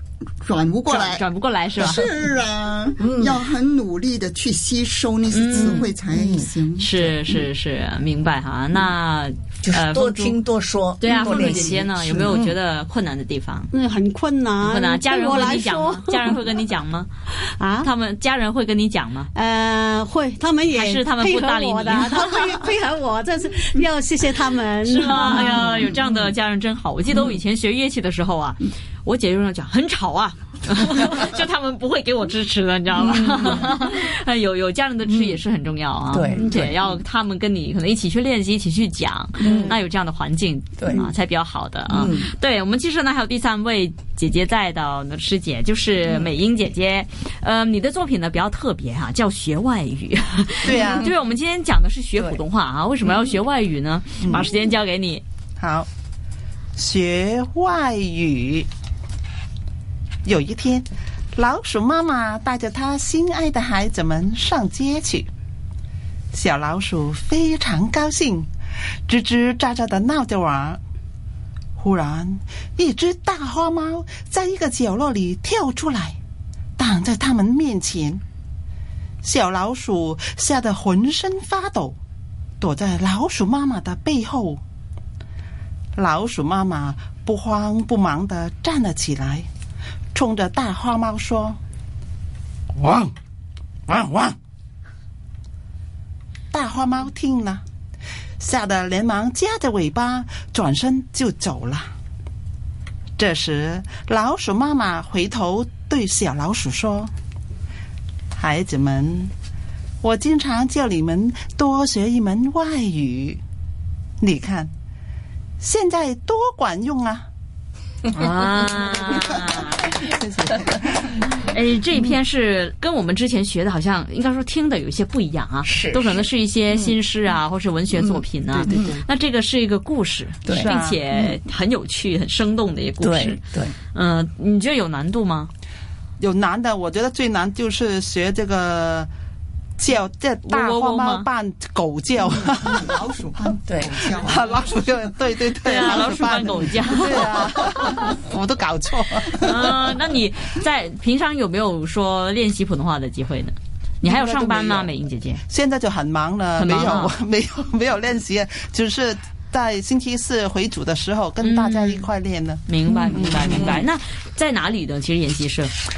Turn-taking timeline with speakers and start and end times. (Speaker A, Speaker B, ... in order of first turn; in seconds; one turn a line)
Speaker A: 0.4-1.2
Speaker B: 0.8-2.0
Speaker A: 1.8-6.9
Speaker C: 3.0-3.4
Speaker B: 5.3-5.9
Speaker C: 5.5-7.1
Speaker B: 6.8-10.4
Speaker C: 9.6-12.5
Speaker B: 11.0-13.7
Speaker D: 13.7-16.1
Speaker B: 14.6-17.1
Speaker D: 17.6-17.9
Speaker B: 17.8-19.3
Speaker D: 19.3-25.4
Speaker B: 20.7-22.6
Speaker B: 24.8-55.2
Speaker C: 33.0-33.7
Speaker C: 36.1-36.8
Speaker C: 39.4-39.8
Speaker C: 40.8-41.1
Speaker C: 41.9-42.3
Speaker E: 50.6-51.1
Speaker E: 54.2-54.5
Speaker E: 55.6-55.9
Speaker E: 56.8-58.7
Speaker E: 60.2-65.3
Speaker E: 66.3-68.5
Speaker E: 69.1-70.8
Speaker E: 71.8-76.2
Speaker E: 76.8-78.2
Speaker E: 79.2-82.0
Speaker E: 82.6-84.6
Speaker E: 86.0-89.5
Speaker E: 90.1-91.6
Speaker E: 96.5-97.6
Speaker E: 98.4-101.9
Speaker E: 103.2-107.1
Speaker E: 108.3-109.3
Speaker E: 110.0-113.4
Speaker E: 114.2-114.7
Speaker E: 115.6-117.2
Speaker B: 118.1-119.9
Speaker E: 120.0-121.2
Speaker B: 121.3-133.4
Speaker C: 125.6-126.3
Speaker C: 127.9-128.2
Speaker E: 128.5-129.0
Speaker C: 130.4-130.7
Speaker E: 130.5-131.0
Speaker C: 133.0-133.7
Speaker B: 133.9-135.5
Speaker E: 136.2-139.1
Speaker E: 139.8-142.9
Speaker B: 140.4-141.3
Speaker A: 142.8-144.5
Speaker C: 143.7-143.9
Speaker E: 144.2-149.8
Speaker B: 145.6-147.4
Speaker B: 149.3-155.4
Speaker E: 154.0-154.9
Speaker E: 155.5-163.8
Speaker B: 156.5-157.1
Speaker B: 161.4-162.1
Speaker B: 162.7-165.7
Speaker C: 163.0-163.8